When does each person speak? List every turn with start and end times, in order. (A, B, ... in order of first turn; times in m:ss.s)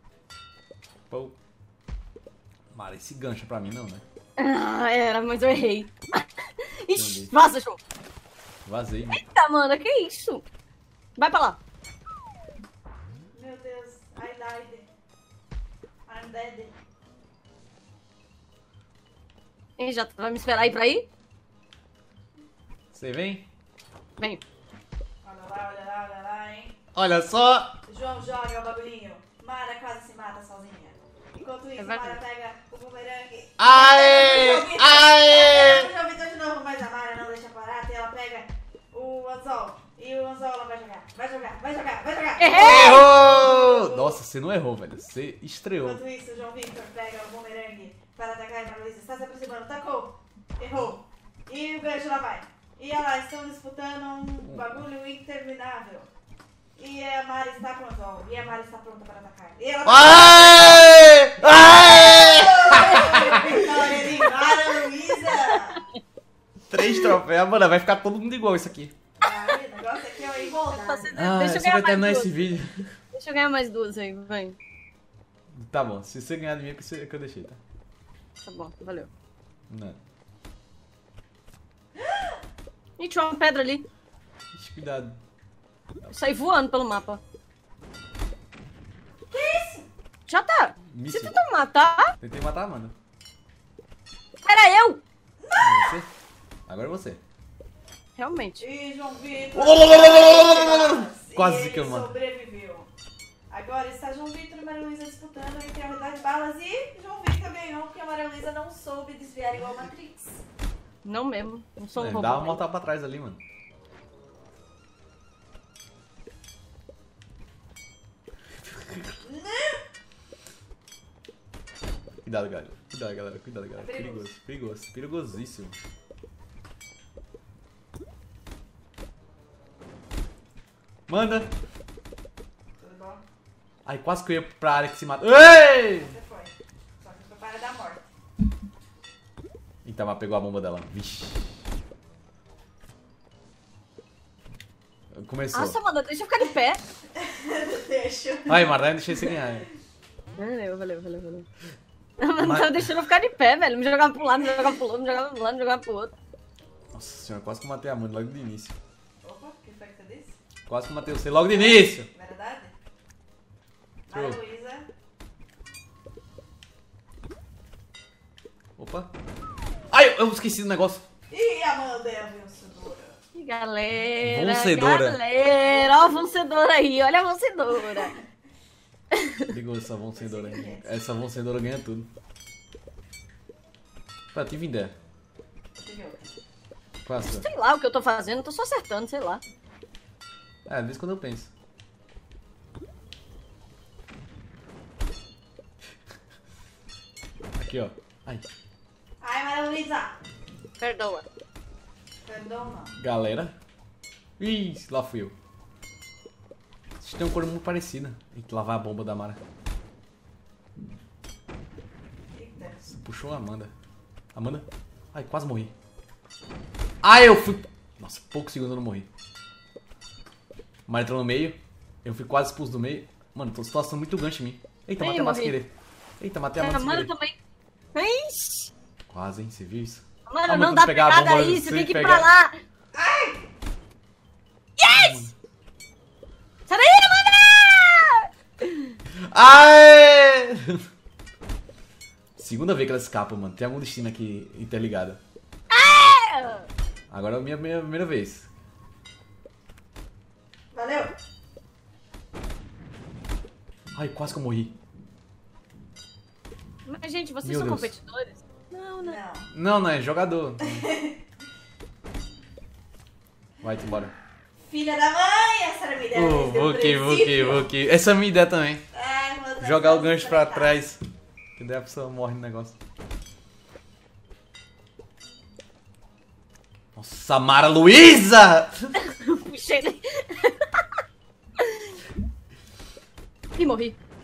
0:01.1-0:01.4 A
0:02.7-0:04.0 A
0:04.4-0:07.8 B
0:07.0-0:07.3 A
0:08.7-0:09.2 A
0:09.1-0:10.4 B
0:11.2-0:11.6 B
0:13.3-0:14.9 C
0:16.1-0:16.7 C
0:19.8-0:21.1 B
0:22.9-0:23.5 A
0:25.2-0:26.8 C
0:27.0-0:27.7 A
0:27.9-0:44.2 C
0:31.8-0:32.2 B
0:33.6-0:35.9 A
0:42.4-0:43.1 B
0:42.5-0:46.0 A
0:45.8-0:56.1 C
0:56.8-1:01.1 C
0:59.9-1:03.9 A
1:01.8-1:05.8 C
1:06.7-1:08.9 A
1:09.2-1:11.2 C
1:10.6-1:12.3 B
1:11.2-1:13.0 A
1:13.1-1:14.6 B
1:15.5-1:17.6 A
1:18.4-1:19.1 B
1:19.7-1:20.0 A
1:22.0-1:22.4 C
1:23.0-1:23.8 B
1:24.5-1:25.2 A
1:26.0-1:27.2 B
1:29.3-1:29.9 C
1:30.3-1:32.1 B
1:30.9-1:31.4 A
1:32.2-1:32.9 A
1:34.4-1:35.0 B
1:35.4-1:35.9 C
1:35.6-1:36.1 A
1:36.7-1:37.2 A
1:38.2-1:38.6 B
1:38.6-1:42.9 C
1:39.6-1:42.1 A
1:43.5-1:50.4 C
1:51.0-1:52.6 B
1:52.0-1:53.4 A
1:58.6-1:59.1 A
1:59.2-1:59.8 C
2:02.2-2:05.8 A
2:03.8-2:04.3 C
2:11.1-2:11.5 A
2:12.8-2:13.2 C
2:13.9-2:16.2 A
2:15.9-2:18.0 C
2:19.8-2:21.6 A
2:25.1-2:25.8 A
2:25.5-2:26.8 B
2:27.2-2:29.3 C
2:28.5-2:29.7 A
2:30.4-2:31.5 B
2:32.2-2:36.1 B
2:32.4-2:32.9 A
2:36.9-2:38.8 A
2:39.2-2:40.4 C
2:40.7-2:42.1 A
2:41.5-2:42.8 C
2:44.1-2:44.9 C
2:44.1-2:44.4 A
2:48.8-2:49.1 A
2:49.9-2:51.0 A
2:51.3-2:53.2 C
2:53.4-2:58.2 B
2:54.2-2:55.2 A
2:55.7-2:56.2 C
2:59.1-2:59.5 B
2:59.5-3:02.1 A
3:00.2-3:01.0 C
3:04.3-3:05.0 A
3:05.8-3:06.3 C
3:07.1-3:07.5 A
3:07.3-3:09.4 B
3:10.7-3:11.5 A
3:17.6-3:18.5 A
3:19.2-3:20.2 C
3:20.8-3:21.3 B
3:22.3-3:23.0 C
3:23.0-3:23.6 A
3:24.4-3:25.3 A
3:27.0-3:29.4 A
3:32.3-3:32.8 C
3:32.8-3:33.7 A
3:34.3-3:35.7 A
3:37.0-3:39.1 A
3:40.9-3:47.1 A
3:45.0-3:45.6 B
3:46.6-3:47.4 B
3:48.0-3:48.7 B
3:49.1-3:52.3 A
3:50.3-3:52.6 B
3:52.9-3:53.4 C
3:54.8-3:55.2 B
3:54.9-3:55.3 A
3:56.7-3:59.0 B
3:59.3-4:00.8 A
4:02.4-4:05.2 A
4:05.7-4:06.7 B
4:07.1-4:08.5 A
4:10.7-4:11.1 C
4:13.9-4:14.7 A
4:16.8-4:19.2 B
4:17.4-4:17.9 A
4:19.0-4:19.5 C
4:19.5-4:20.8 A
4:20.6-4:21.2 C
4:23.6-4:24.1 A
4:24.7-4:27.7 C
4:26.1-4:28.8 A
4:28.9-4:30.8 C
4:29.6-4:31.0 A
4:31.6-4:32.8 A
4:37.0-4:38.9 A
4:39.0-4:40.8 B
4:41.6-4:41.9 B
4:43.6-4:44.0 B